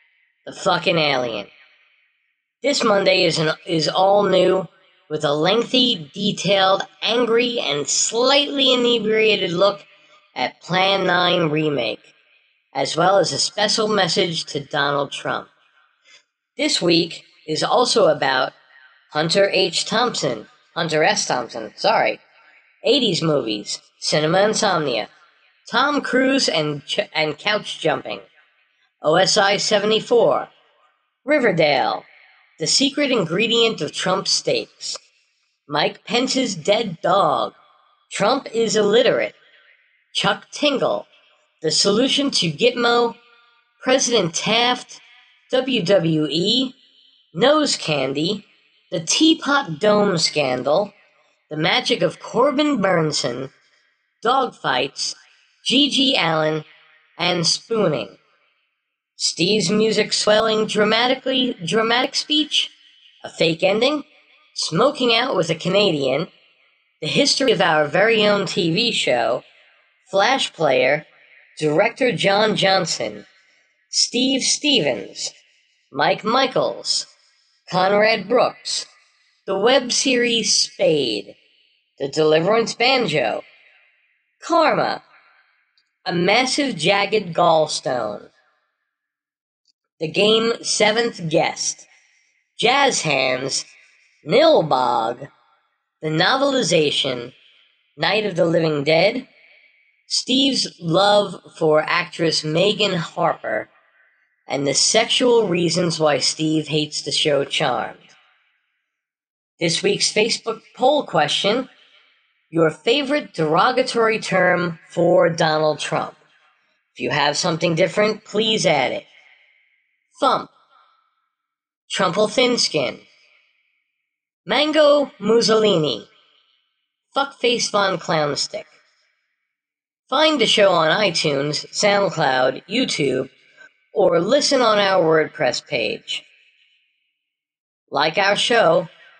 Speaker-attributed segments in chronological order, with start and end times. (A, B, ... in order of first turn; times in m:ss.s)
0:00.4-0:01.5 A
0:02.6-0:12.1 A
0:12.7-0:15.5 A
0:16.6-0:18.5 A
0:19.1-0:22.2 A
0:22.8-0:25.1 A
0:25.7-0:28.3 A
0:29.0-0:30.5 A
0:31.2-0:32.1 A
0:32.6-0:35.0 A
0:35.7-0:37.6 A
0:38.1-0:39.4 A
0:40.1-0:41.1 A
0:41.6-0:43.2 A
0:43.8-0:46.7 A
0:47.3-0:50.9 A
0:51.5-0:53.5 A
0:54.2-0:56.6 A
0:57.2-0:58.2 A
0:59.2-1:06.3 A
1:07.0-1:09.4 A
1:10.0-1:13.3 A
1:13.9-1:15.3 A
1:15.9-1:17.1 A
1:17.7-1:18.9 A
1:19.4-1:21.4 A
1:22.0-1:23.4 A
1:24.4-1:25.0 A
1:26.0-1:28.3 A
1:30.0-1:31.9 A
1:32.6-1:33.7 A
1:34.2-1:35.3 A
1:36.0-1:37.3 A
1:38.0-1:39.3 A
1:40.1-1:43.7 A
1:44.5-1:48.1 A
1:49.6-1:51.7 A
1:52.5-1:56.2 A
1:57.0-1:59.1 A
2:00.1-2:00.5 A
2:01.9-2:03.0 A
2:04.4-2:06.1 A
2:07.1-2:08.7 A
2:10.1-2:13.3 A
2:13.9-2:16.2 A
2:17.9-2:18.9 A